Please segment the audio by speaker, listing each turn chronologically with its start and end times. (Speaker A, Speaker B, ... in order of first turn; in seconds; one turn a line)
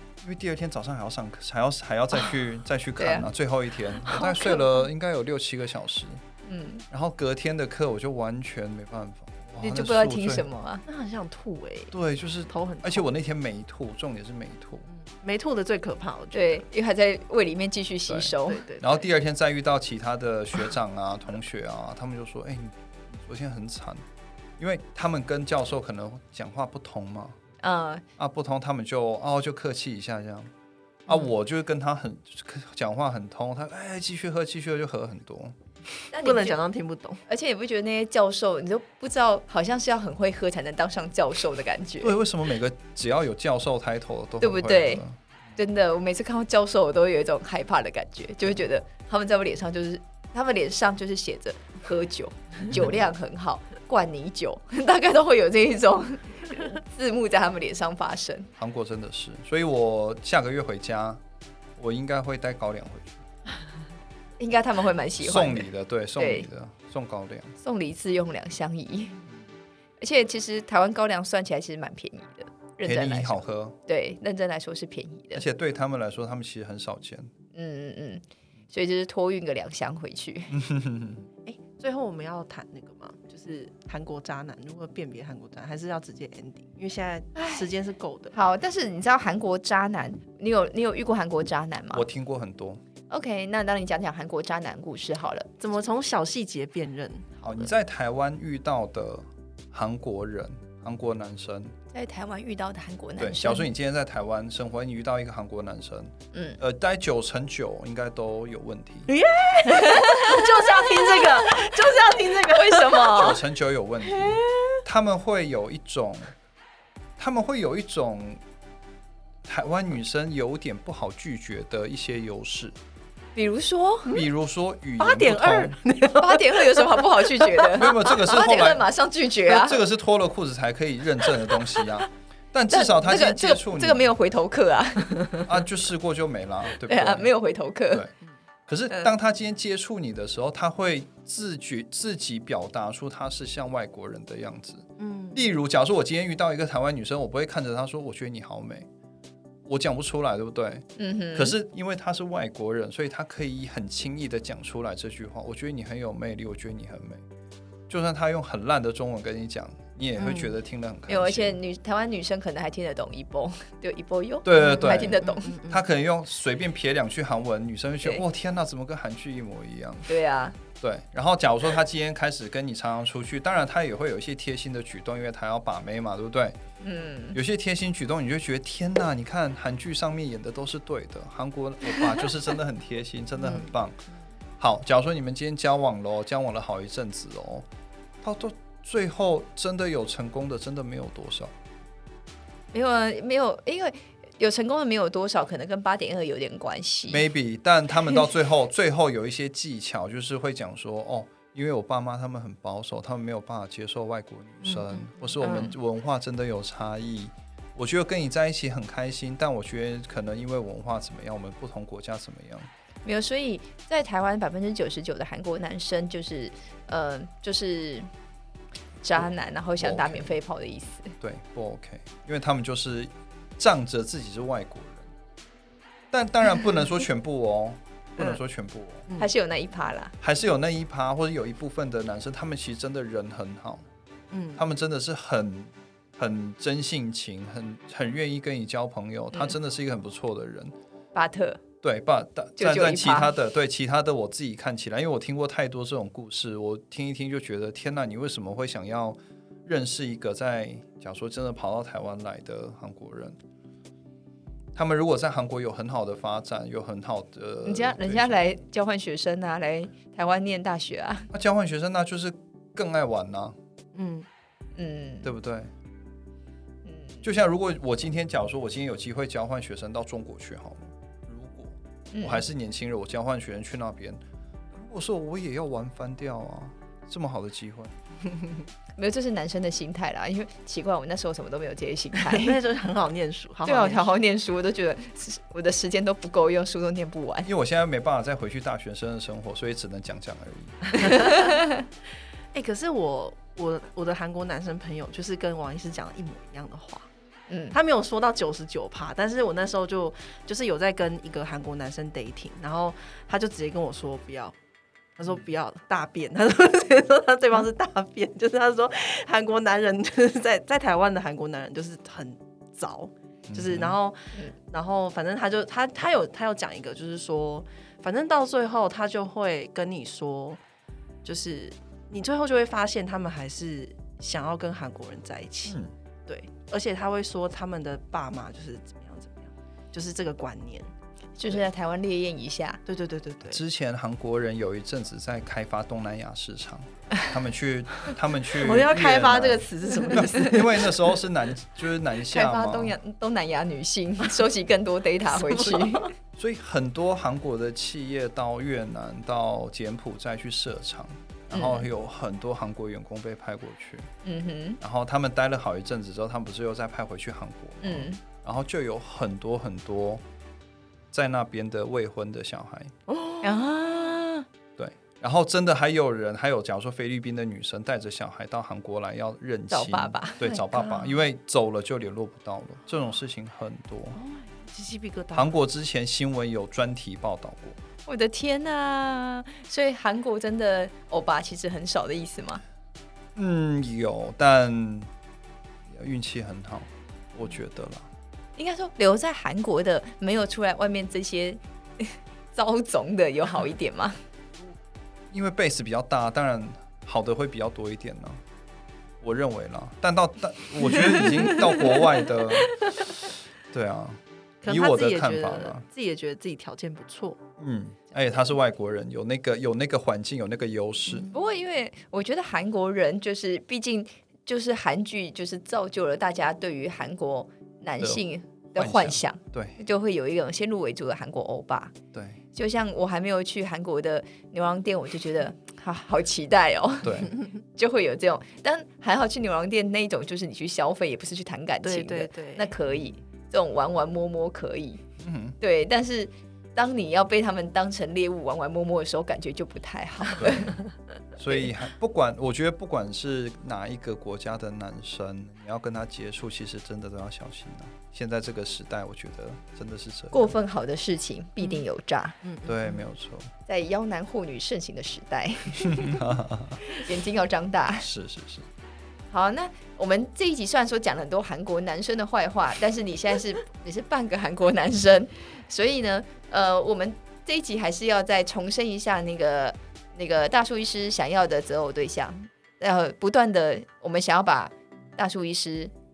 Speaker A: 0.2-6.2
Speaker B: 3.0-3.3
Speaker B: 4.0-4.9
Speaker B: 6.4-6.8
Speaker A: 6.9-10.5
Speaker B: 9.6-10.8
Speaker C: 10.8-13.1
Speaker A: 11.9-14.9
Speaker C: 14.9-16.6
Speaker B: 16.3-18.6
Speaker A: 18.1-24.0
Speaker C: 18.5-19.0
Speaker A: 24.6-27.4
Speaker B: 27.6-28.0
Speaker A: 28.2-30.5
Speaker A: 31.1-35.5
Speaker B: 36.1-36.6
Speaker C: 36.1-37.2
Speaker B: 37.3-42.2
Speaker A: 42.0-45.2
Speaker B: 44.4-45.0
Speaker B: 45.5-58.5
Speaker A: 58.6-61.2
Speaker A: 61.8-63.2
Speaker B: 64.4-66.5
Speaker A: 65.2-67.5
Speaker B: 67.6-69.2
Speaker B: 70.0-75.4
Speaker A: 72.8-73.8
Speaker A: 75.3-77.3
Speaker B: 77.5-80.6
Speaker A: 80.5-81.3
Speaker C: 81.4-88.3
Speaker B: 87.3-87.7
Speaker B: 88.3-92.0
Speaker A: 91.9-92.8
Speaker B: 93.1-95.5
Speaker C: 95.6-97.6
Speaker A: 97.4-101.7
Speaker B: 101.9-103.7
Speaker A: 103.2-109.1
Speaker B: 106.3-106.6
Speaker C: 109.1-113.4
Speaker B: 109.8-110.4
Speaker B: 111.0-113.4
Speaker A: 113.1-116.3
Speaker C: 114.0-114.6
Speaker A: 117.2-118.4
Speaker A: 119.4-122.7
Speaker B: 123.3-124.2
Speaker A: 124.1-125.8
Speaker C: 125.0-128.4
Speaker B: 126.2-129.8
Speaker A: 127.7-128.9
Speaker A: 129.4-134.1
Speaker B: 132.7-135.4
Speaker A: 135.4-137.3
Speaker B: 136.8-138.1
Speaker A: 138.7-148.9
Speaker C: 145.0-145.5
Speaker A: 149.7-157.2
Speaker B: 151.0-151.6
Speaker A: 157.9-161.6
Speaker C: 160.2-160.6
Speaker B: 161.1-165.6
Speaker A: 164.4-170.1
Speaker C: 164.5-165.8
Speaker B: 170.1-170.6
Speaker A: 170.8-176.6
Speaker B: 176.8-177.4
Speaker A: 177.3-184.0
Speaker C: 183.3-183.8
Speaker A: 184.6-187.7
Speaker A: 188.2-191.5
Speaker B: 192.7-197.2
Speaker A: 197.1-212.7
Speaker C: 204.6-205.4
Speaker B: 205.4-205.7
Speaker B: 213.0-218.1
Speaker B: 219.0-221.1
Speaker A: 219.1-220.4
Speaker A: 221.2-225.1
Speaker A: 226.1-229.1
Speaker B: 229.2-230.1
Speaker A: 230.2-233.8
Speaker C: 234.3-234.6
Speaker A: 234.6-240.7
Speaker B: 241.1-241.6
Speaker A: 241.8-253.3
Speaker B: 242.6-243.3
Speaker A: 254.7-258.4
Speaker B: 257.6-261.3
Speaker A: 261.3-263.6
Speaker C: 263.9-264.2
Speaker B: 264.7-265.3
Speaker A: 265.2-265.7
Speaker B: 266.8-267.2
Speaker A: 267.2-274.2
Speaker B: 272.1-272.4
Speaker A: 274.7-277.9
Speaker B: 279.0-282.5
Speaker C: 282.2-284.1
Speaker B: 283.6-287.5
Speaker A: 287.4-291.1
Speaker B: 291.1-291.8
Speaker C: 292.5-297.1
Speaker B: 297.5-297.8
Speaker C: 297.7-304.5
Speaker C: 305.2-320.6
Speaker A: 313.5-314.0
Speaker C: 321.2-330.9
Speaker A: 325.6-325.9
Speaker B: 331.4-332.8
Speaker C: 332.9-333.6
Speaker A: 333.4-342.9
Speaker C: 338.6-341.0
Speaker B: 342.2-346.1
Speaker C: 345.3-346.1
Speaker A: 346.4-354.1
Speaker B: 351.5-351.9
Speaker B: 354.2-354.8
Speaker A: 354.8-360.2
Speaker B: 357.8-358.2
Speaker A: 361.1-362.9
Speaker C: 363.1-363.6
Speaker B: 363.4-364.4
Speaker A: 364.8-374.2
Speaker B: 369.7-371.0
Speaker C: 374.1-375.5
Speaker A: 375.3-377.8
Speaker B: 378.1-382.6
Speaker A: 383.3-385.1
Speaker A: 385.9-388.1
Speaker B: 388.6-394.2
Speaker A: 395.3-398.4
Speaker A: 399.2-402.8
Speaker C: 401.0-402.0
Speaker A: 403.7-405.8
Speaker C: 404.6-407.4
Speaker A: 407.6-411.3
Speaker B: 411.3-421.9
Speaker A: 418.7-419.8
Speaker A: 422.1-422.4
Speaker B: 422.5-435.0
Speaker A: 427.0-427.3
Speaker C: 431.8-432.7
Speaker A: 435.2-435.6
Speaker B: 435.6-440.8
Speaker A: 440.4-440.7
Speaker A: 441.4-450.6
Speaker B: 450.3-452.4
Speaker C: 452.4-453.0
Speaker A: 452.6-453.5
Speaker B: 453.6-456.2
Speaker A: 456.0-456.8
Speaker B: 456.9-458.1
Speaker A: 458.0-458.6
Speaker B: 459.3-475.9